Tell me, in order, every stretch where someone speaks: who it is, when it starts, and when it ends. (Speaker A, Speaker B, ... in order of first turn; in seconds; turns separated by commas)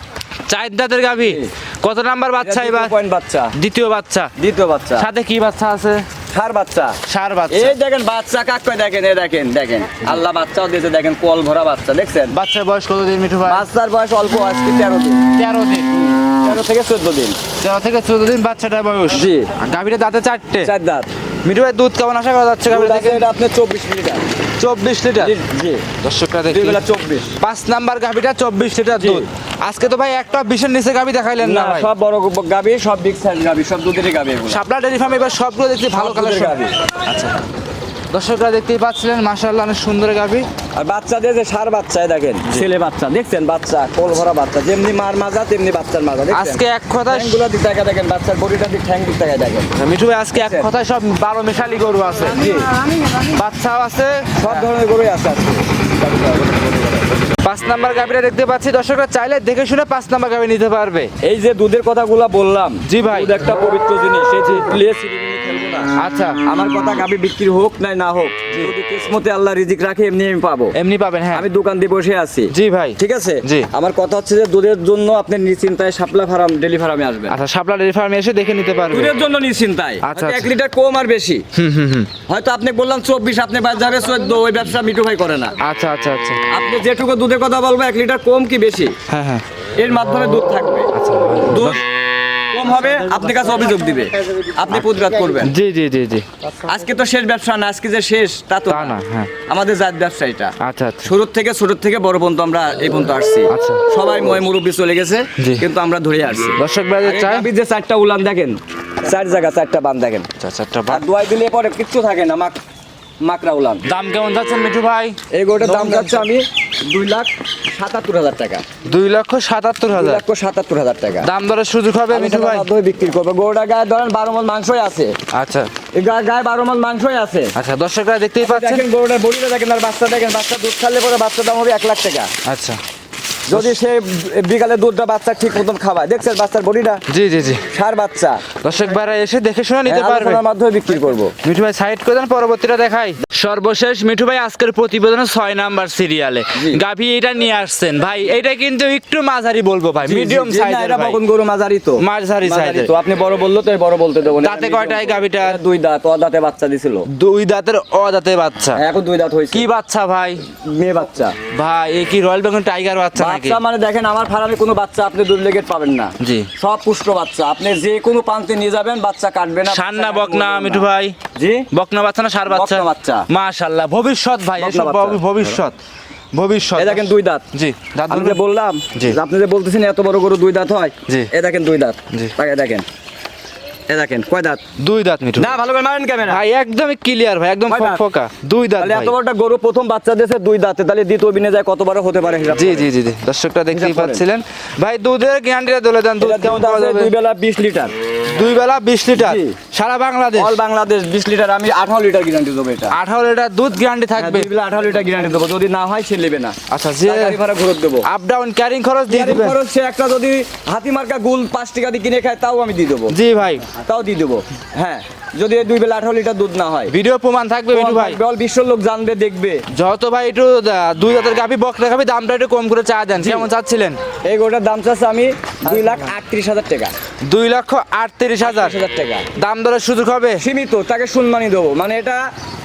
Speaker A: 0.5-2.9, Speaker B: 1.2-1.5, Speaker B: 2.4-3.5, Speaker A: 3.5-4.3, Speaker B: 4.4-5.1, Speaker A: 5.0-6.0, Speaker B: 6.3-12.3, Speaker A: 7.1-7.8, Speaker A: 12.3-13.6, Speaker B: 13.4-15.3, Speaker A: 15.3-15.9, Speaker B: 16.0-17.4, Speaker A: 17.6-20.7, Speaker B: 19.1-19.5, Speaker B: 20.6-21.1, Speaker A: 21.4-23.3, Speaker B: 22.7-24.2, Speaker A: 24.6-25.3, Speaker B: 25.2-25.9, Speaker A: 26.0-26.8, Speaker B: 26.5-27.4, Speaker A: 27.4-31.9, Speaker B: 28.9-29.3, Speaker B: 31.4-34.6, Speaker A: 34.5-37.4, Speaker B: 35.9-36.7, Speaker A: 38.1-40.5, Speaker B: 40.8-49.8, Speaker A: 46.3-47.4, Speaker A: 49.8-52.6, Speaker B: 50.3-50.7, Speaker B: 52.3-53.2, Speaker A: 53.2-54.7, Speaker B: 54.4-57.4, Speaker A: 57.4-61.1, Speaker B: 61.2-65.9, Speaker A: 62.9-63.4, Speaker A: 66.0-66.4, Speaker B: 66.4-70.8, Speaker A: 70.7-71.5, Speaker B: 71.3-77.4, Speaker A: 72.5-73.7, Speaker A: 77.3-79.2, Speaker B: 78.9-81.4, Speaker A: 80.0-80.5, Speaker A: 81.5-82.1, Speaker B: 82.3-85.5, Speaker A: 85.6-86.4, Speaker B: 86.5-89.0, Speaker A: 89.1-89.4, Speaker B: 89.8-90.9, Speaker A: 90.9-91.8, Speaker B: 91.5-91.8, Speaker B: 92.5-95.5, Speaker A: 95.4-96.3, Speaker B: 96.5-110.3, Speaker A: 98.7-99.3, Speaker A: 100.6-101.1, Speaker A: 103.5-103.8, Speaker A: 105.4-105.7, Speaker A: 106.6-107.5, Speaker A: 110.4-111.0, Speaker B: 110.9-112.6, Speaker B: 113.2-113.8, Speaker A: 113.8-116.2, Speaker B: 115.3-118.6, Speaker A: 118.8-120.2, Speaker B: 119.9-121.3, Speaker A: 121.2-122.7, Speaker B: 122.1-125.1, Speaker A: 125.3-125.7, Speaker B: 125.9-127.5, Speaker A: 127.5-128.8, Speaker B: 128.4-132.3, Speaker A: 132.4-132.8, Speaker B: 133.5-137.0, Speaker A: 137.1-137.7, Speaker B: 137.7-138.5, Speaker A: 138.6-140.4, Speaker B: 139.8-141.3, Speaker A: 141.4-151.2, Speaker B: 146.5-146.8, Speaker B: 150.0-157.1, Speaker A: 152.0-152.9, Speaker A: 154.4-155.6, Speaker A: 157.1-158.8, Speaker B: 158.7-159.7, Speaker A: 159.5-160.4, Speaker B: 160.5-161.4, Speaker A: 161.5-163.6, Speaker B: 163.1-171.7, Speaker A: 166.2-166.5, Speaker A: 169.7-171.2, Speaker A: 171.7-175.8, Speaker B: 172.5-173.3, Speaker B: 174.6-175.6, Speaker A: 176.3-178.4, Speaker B: 176.8-177.4, Speaker B: 178.1-182.8, Speaker B: 183.9-184.6, Speaker A: 184.8-185.6, Speaker B: 185.4-186.4, Speaker A: 186.2-189.1, Speaker B: 187.7-188.0, Speaker B: 188.8-192.9, Speaker A: 192.5-197.1, Speaker B: 193.7-194.2, Speaker B: 196.2-197.9, Speaker A: 198.3-200.6, Speaker B: 199.1-199.6, Speaker B: 200.3-203.0, Speaker A: 202.9-204.5, Speaker B: 204.2-208.1, Speaker A: 206.7-207.4, Speaker A: 208.0-209.6, Speaker B: 209.1-213.2, Speaker A: 213.1-213.7, Speaker B: 213.8-216.9, Speaker A: 216.9-218.2, Speaker B: 217.7-219.6, Speaker A: 219.7-224.0, Speaker B: 223.2-223.4, Speaker B: 224.2-226.9, Speaker A: 225.7-226.1, Speaker A: 227.2-228.7, Speaker B: 228.4-229.3, Speaker A: 229.3-230.4, Speaker B: 230.4-232.3